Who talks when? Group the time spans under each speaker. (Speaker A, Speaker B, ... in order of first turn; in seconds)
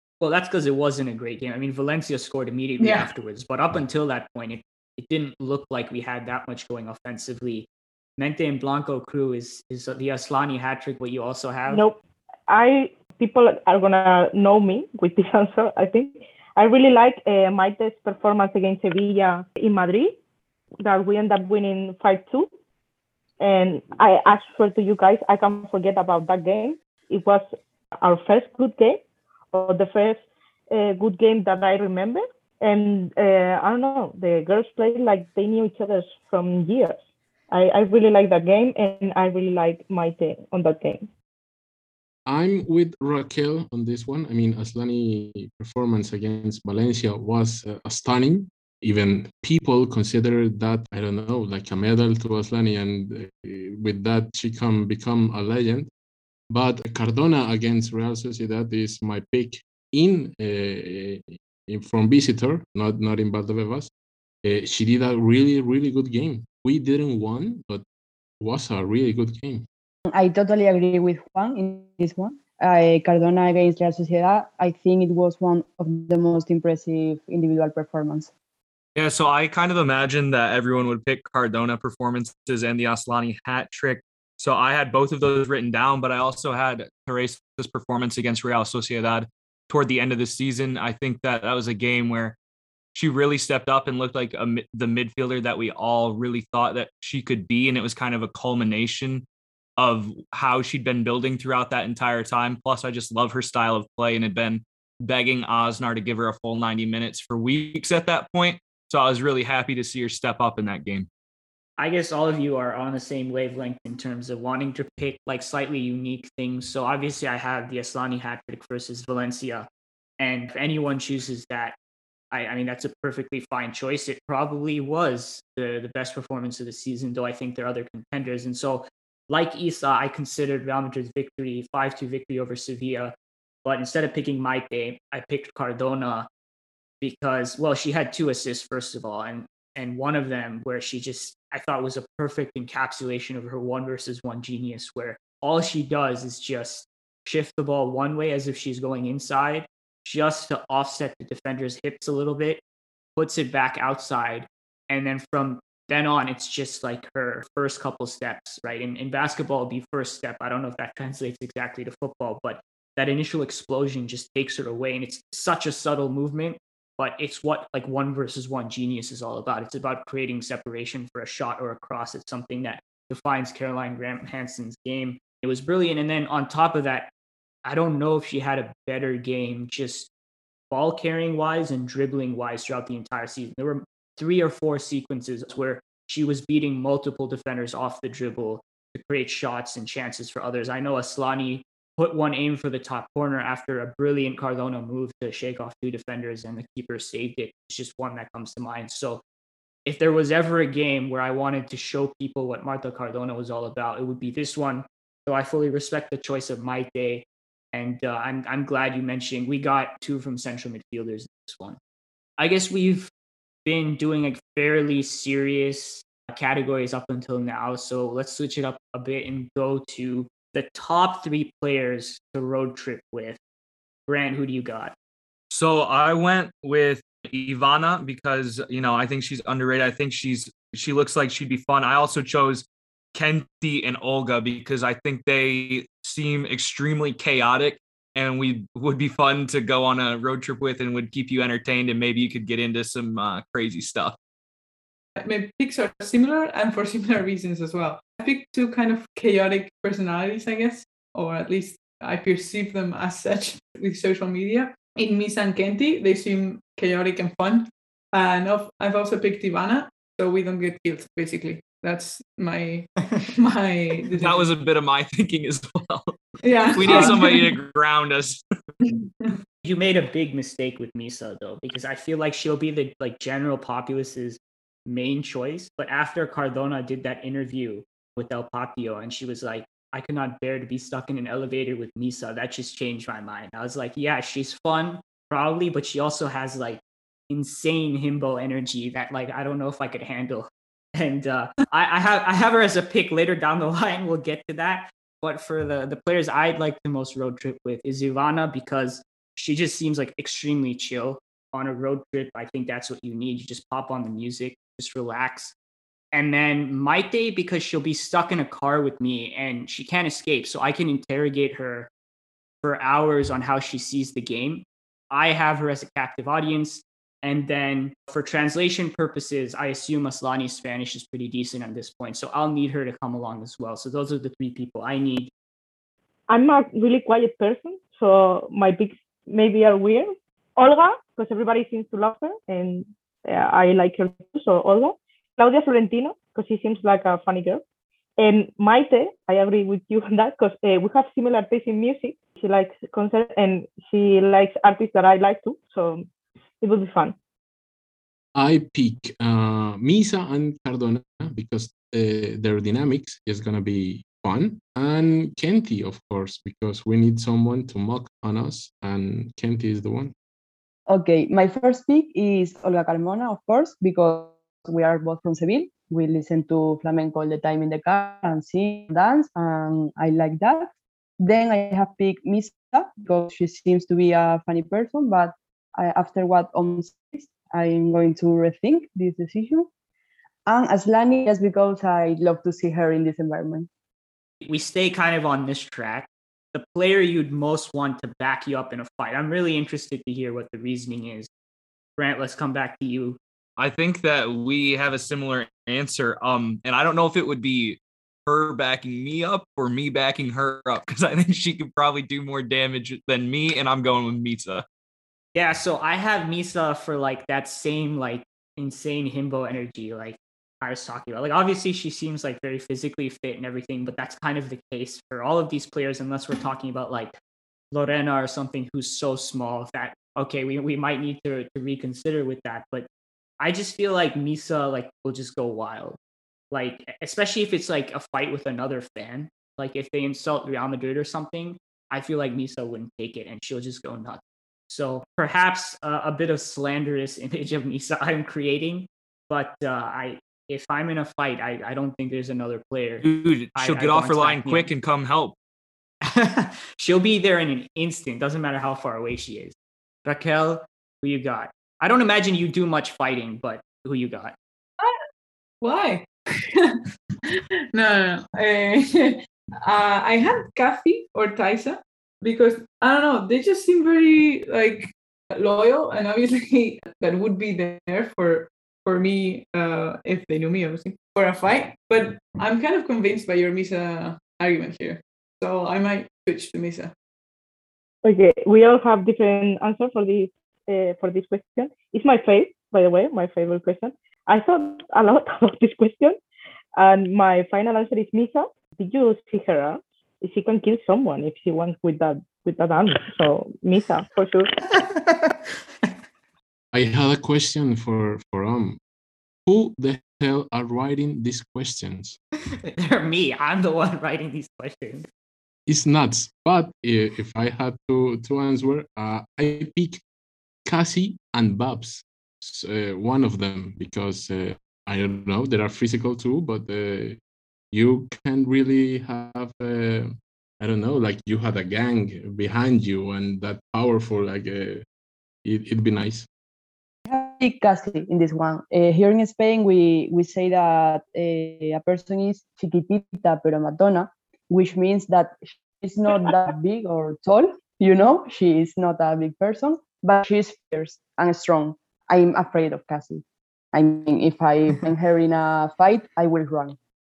Speaker A: 0.2-11.8, 111.8-119.7, 120.2-121.8, 122.3-133.1, 133.6-136.3, 137.0-152.6, 153.2-177.1, 177.6-180.1, 180.7-199.2, 199.8-211.8, 212.4-213.1, 213.7-223.4, 224.1-224.9, 269.6-305.5, 306.1-311.9, 312.6-325.3, 384.4-391.3, 392.0-393.2, 405.3-417.1, 417.7-422.9, 423.4-426.0, 426.5-444.7, 446.0-449.5, 450.0-454.3, 494.7-495.3, 502.6-505.1
Speaker B: 2.8-3.1, 245.2-264.5, 266.4-267.6, 268.8-269.3, 455.6-476.9
Speaker C: 11.7-20.1, 20.8-22.5, 23.4-27.5, 28.0-29.0, 29.5-41.1, 326.3-337.6, 338.2-346.1, 346.6-347.1, 478.0-486.2, 486.7-494.5
Speaker D: 42.2-55.9, 56.5-63.9, 64.4-67.8, 68.4-69.7, 348.3-360.1, 496.7-498.8, 499.4-502.2, 505.7-510.0, 510.6-517.2, 517.7-524.8, 525.4-526.3
Speaker E: 70.1-78.3, 360.9-379.7, 380.5-383.7, 527.0-543.2, 543.7-546.8
Speaker F: 79.0-92.3, 92.9-99.2, 99.8-111.1, 225.5-244.2, 264.1-266.2, 266.7-268.4, 393.6-404.6, 443.0-445.3